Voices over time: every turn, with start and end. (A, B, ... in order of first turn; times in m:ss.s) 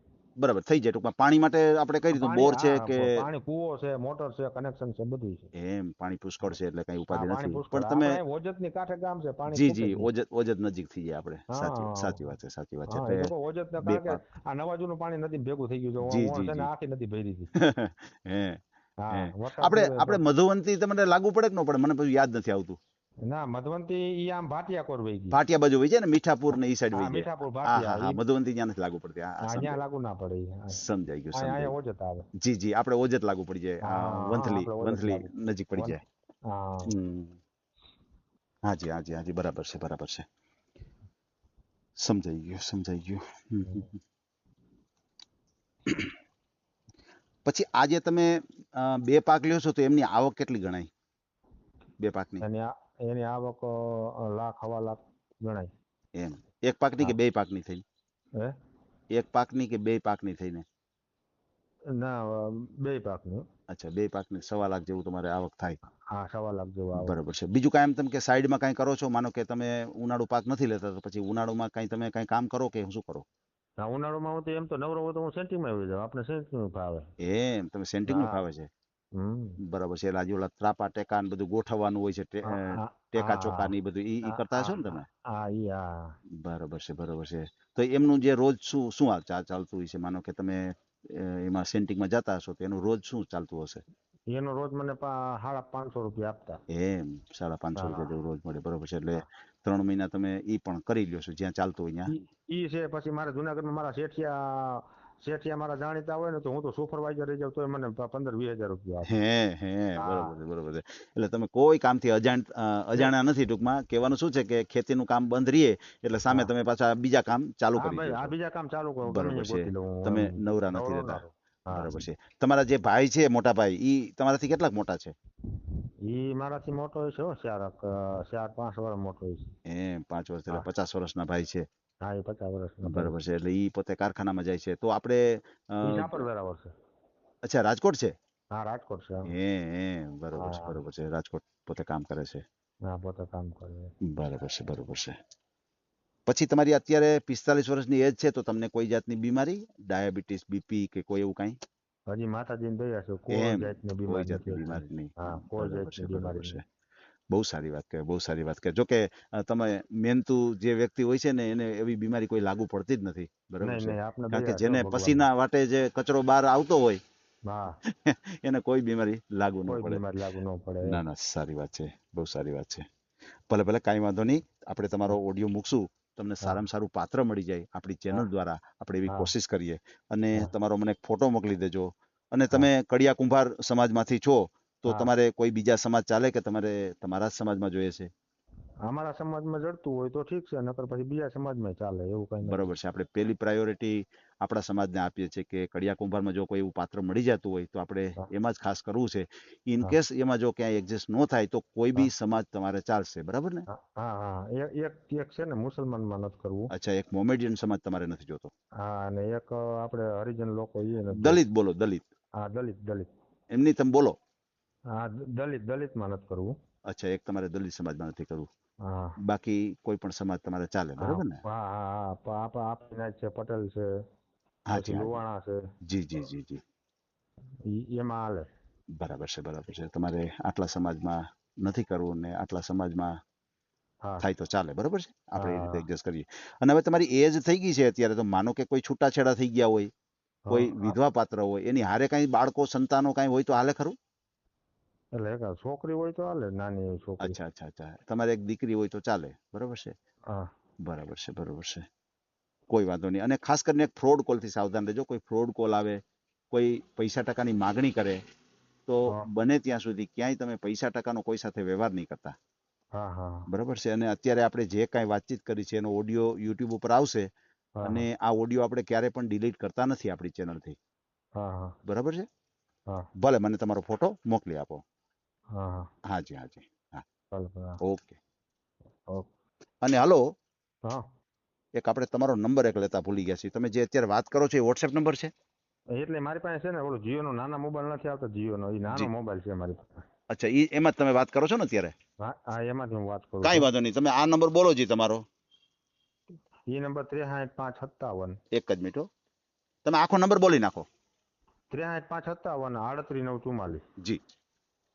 0:00.4-0:03.2 A
0:02.1-0:05.5 B
0:05.6-0:08.2 A
0:07.1-0:10.1 B
0:09.5-0:13.3 A
0:11.5-0:12.3 B
0:12.9-0:17.5 B
0:13.8-0:14.2 A
0:16.0-0:16.7 A
0:17.6-0:18.6 A
0:19.0-0:20.2 B
0:19.1-0:22.8 A
0:23.3-0:25.4 B
0:25.3-0:29.8 A
0:26.5-0:28.2 B
0:29.4-0:30.8 B
0:30.7-0:31.7 A
0:31.3-0:32.2 B
0:32.4-0:36.0 A
0:33.9-0:36.9 B
0:36.9-0:37.4 A
0:38.7-0:40.3 A
0:42.0-0:43.9 A
0:43.6-0:43.9 B
0:45.8-0:46.1 A
0:47.4-0:50.9 A
0:52.0-0:52.4 A
0:52.4-0:55.7 B
0:56.2-0:57.8 A
0:59.1-1:00.6 A
1:02.0-1:03.4 B
1:03.7-1:05.8 A
1:06.1-1:07.2 B
1:07.0-1:13.2 A
1:13.8-1:17.0 B
1:17.2-1:18.7 A
1:18.1-1:18.4 B
1:19.2-1:19.6 B
1:19.6-1:25.0 A
1:22.4-1:23.7 B
1:24.2-1:26.1 B
1:26.4-1:33.8 A
1:34.3-1:36.6 B
1:36.7-1:42.1 A
1:37.8-1:38.1 B
1:42.1-1:49.1 B
1:49.1-1:58.3 A
1:50.0-1:50.4 B
1:57.8-2:01.9 B
1:59.0-2:05.1 A
2:06.1-2:09.5 B
2:09.7-2:11.6 A
2:12.0-2:13.2 B
2:12.8-2:16.2 A
2:15.8-2:16.7 B
2:17.4-2:18.1 A
2:18.5-2:19.3 B
2:19.2-2:22.4 A
2:20.3-2:20.8 B
2:22.9-2:23.9 B
2:24.1-2:25.1 A
2:26.3-2:31.6 A
2:32.1-2:36.6 B
2:33.3-2:36.6 A
2:37.3-2:47.0 A
2:43.6-2:45.2 B
2:48.0-2:50.0 A
2:49.7-2:51.0 B
2:50.8-2:52.8 A
2:53.5-3:08.1 A
3:08.9-3:12.7 B
3:12.4-3:23.6 A
3:23.7-3:26.7 B
3:26.7-3:28.5 A
3:28.8-3:31.4 B
3:31.1-3:32.1 A
3:32.4-3:33.1 B
3:33.5-3:34.2 A
3:34.9-3:36.5 B
3:36.9-3:38.5 A
3:38.8-3:39.2 B
3:39.2-3:41.4 A
3:41.0-3:43.8 B
3:44.7-3:45.2 A
3:44.7-3:45.6 B
3:45.9-3:46.6 A
3:47.7-3:48.5 B
3:49.0-3:53.1 A
3:54.2-3:59.9 A
3:55.4-3:55.8 B
4:00.5-4:01.0 B
4:00.5-4:03.9 A
4:05.2-4:07.4 B
4:07.2-4:09.9 A
4:10.8-4:11.8 A
4:12.7-4:16.0 A
4:16.5-4:18.2 A
4:18.8-4:22.3 A
4:23.0-4:23.5 B
4:23.5-4:27.3 A
4:27.8-4:28.1 B
4:27.8-4:30.8 A
4:31.4-4:31.8 B
4:31.8-4:32.3 A
4:33.2-4:34.8 A
4:35.5-4:35.9 B
4:36.1-4:37.0 A
4:37.3-4:37.8 B
4:37.8-4:38.2 A
4:39.8-4:40.2 A
4:41.8-4:45.3 A
4:46.0-4:50.0 B
4:50.3-4:51.9 A
4:52.2-4:53.7 B
4:53.4-4:55.2 A
4:56.7-4:58.4 B
4:58.5-4:59.1 A
4:59.8-5:00.9 A
5:01.7-5:03.8 B